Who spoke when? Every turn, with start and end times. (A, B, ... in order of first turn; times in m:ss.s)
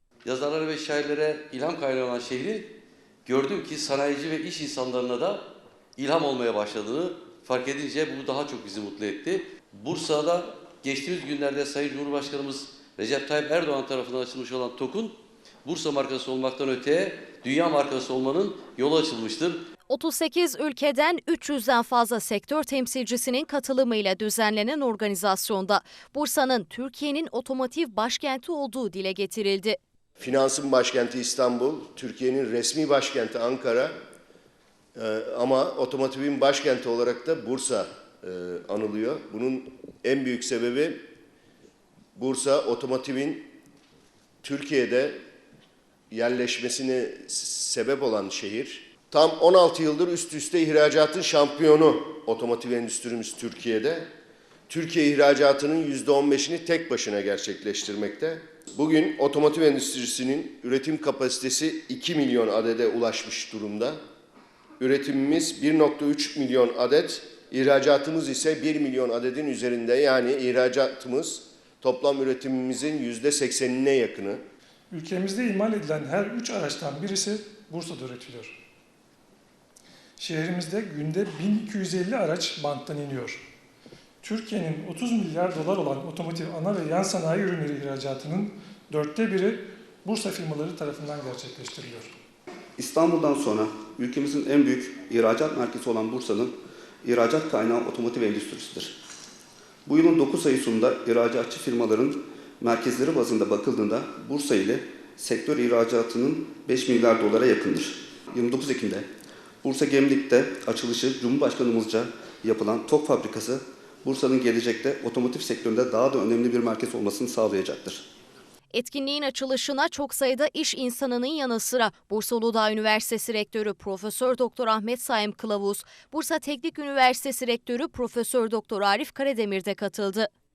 0:00.2-0:02.7 A
0:03.2-0:05.4 A
0:06.0-0:19.6 A
0:19.9-0:29.8 B
0:30.2-0:33.9 C
0:35.0-0:41.0 C
0:42.2-0:43.4 C
0:44.4-0:45.2 C
0:46.1-0:54.1 C
0:54.7-1:04.0 C
1:04.8-1:14.4 C
1:14.9-1:18.5 D
1:20.2-1:23.4 D
1:24.2-1:32.1 D
1:32.8-1:39.0 E
1:39.8-1:49.1 E
1:49.6-1:58.0 E
1:58.7-2:10.3 B